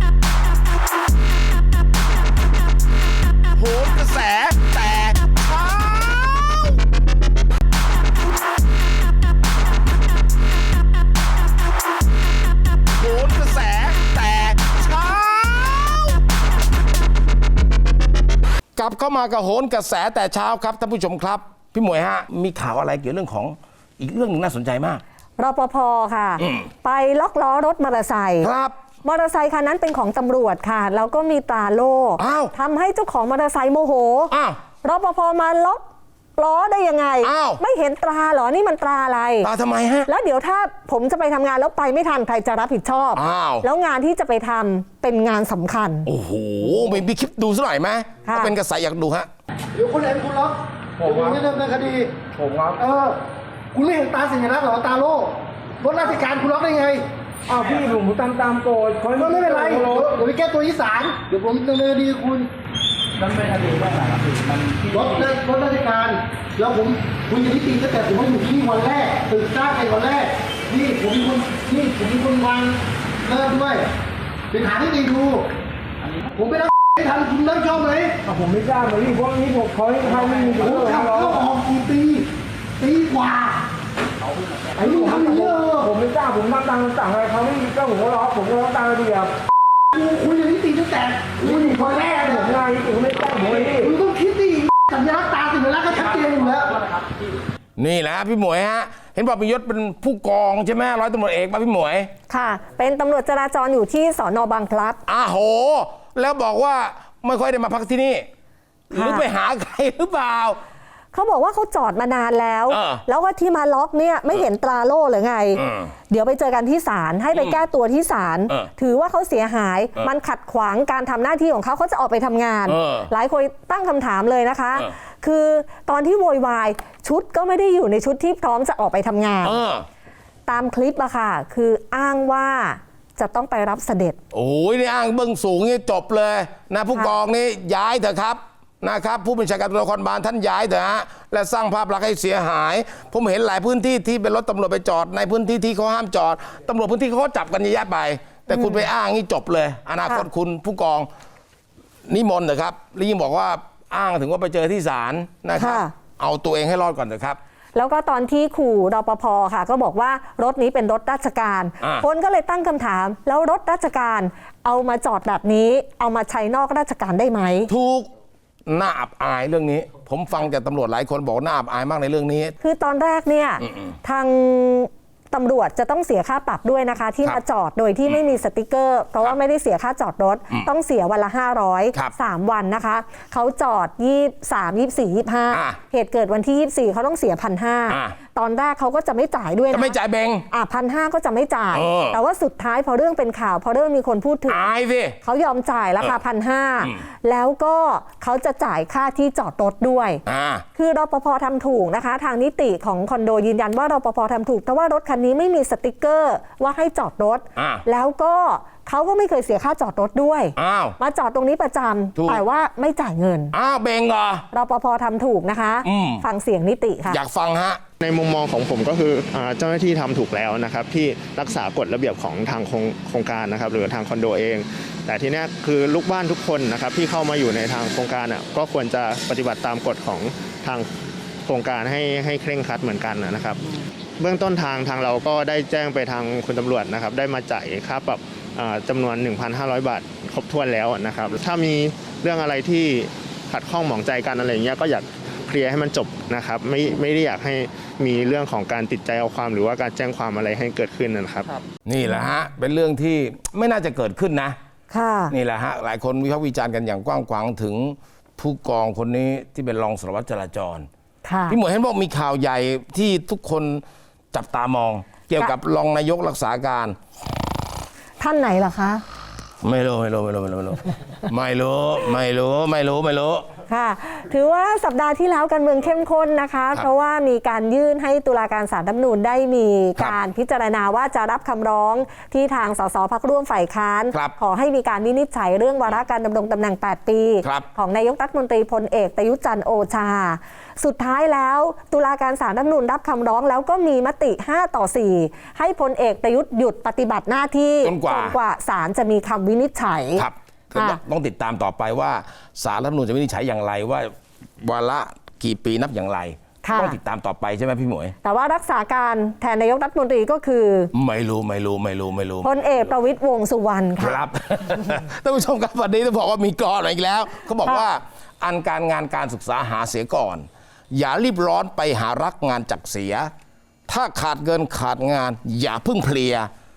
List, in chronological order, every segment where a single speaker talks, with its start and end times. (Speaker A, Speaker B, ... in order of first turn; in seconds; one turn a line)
Speaker A: 3.5-6.8
Speaker A: 12.9-16.2
Speaker A: 18.8-25.0
Speaker B: 25.4-28.5
Speaker A: 26.4-26.7
Speaker A: 28.4-28.8
Speaker B: 29.0-35.8
Speaker A: 32.2-32.5
Speaker A: 34.3-34.6
Speaker B: 36.4-39.5
Speaker A: 37.2-37.6
Speaker A: 39.4-40.1
Speaker B: 40.1-46.1
Speaker A: 43.1-43.7
Speaker A: 46.0-49.3
Speaker B: 48.2-48.5
Speaker C: 49.7-52.1
Speaker D: 51.0-51.5
Speaker D: 52.4-52.8
Speaker C: 52.8-53.2
Speaker C: 53.7-57.0
Speaker D: 57.5-60.2
Speaker C: 59.1-62.5
Speaker C: 64.8-73.9
Speaker C: 74.5-75.5
Speaker C: 76.3-78.2
Speaker D: 78.3-81.4
Speaker C: 80.0-82.3
Speaker C: 82.8-83.6
Speaker C: 84.8-85.9
Speaker D: 84.8-89.3
Speaker C: 89.9-92.6
Speaker D: 91.4-94.0
Speaker C: 93.3-97.0
Speaker A: 97.8-102.1
Speaker B: 102.3-105.0
Speaker A: 105.1-108.3
Speaker A: 108.9-110.6
Speaker B: 108.9-109.3
Speaker B: 111.1-129.6
Speaker A: 112.7-113.0
Speaker A: 115.6-115.9
Speaker A: 117.3-117.6
Speaker A: 122.7-123.1
Speaker A: 129.4-129.9
Speaker B: 130.5-134.2
Speaker A: 134.3-151.1
Speaker B: 148.5-148.9
Speaker A: 152.1-157.4
Speaker B: 155.6-155.9
Speaker B: 157.8-167.7
Speaker A: 161.8-162.1
Speaker A: 167.7-168.1
Speaker A: 168.7-172.6
Speaker B: 172.6-190.0
Speaker A: 173.6-173.9
Speaker A: 185.5-185.8
Speaker A: 187.9-188.2
Speaker A: 189.7-190.5
Speaker B: 190.5-194.6
Speaker A: 191.7-192.2
Speaker A: 194.5-195.2
Speaker B: 195.2-200.2
Speaker A: 200.2-200.7
Speaker B: 200.8-213.5
Speaker A: 207.6-207.8
Speaker A: 210.6-211.0
Speaker A: 212.2-212.4
Speaker A: 213.5-214.5
Speaker B: 214.5-217.2
Speaker A: 215.8-216.2
Speaker A: 217.1-217.8
Speaker E: 218.0-230.9
Speaker E: 231.5-233.6
Speaker E: 234.2-251.6
Speaker A: 251.9-254.6
Speaker B: 254.9-255.3
Speaker A: 255.3-260.9
Speaker B: 261.2-261.6
Speaker A: 261.5-267.0
Speaker B: 268.2-269.0
Speaker A: 269.6-273.5
Speaker B: 273.7-301.0
Speaker A: 297.8-298.4
Speaker A: 300.2-308.1
Speaker B: 306.6-307.0
Speaker B: 308.2-310.9
Speaker A: 310.9-312.9
Speaker B: 312.4-314.2
Speaker A: 314.0-323.3
Speaker A: 323.9-326.5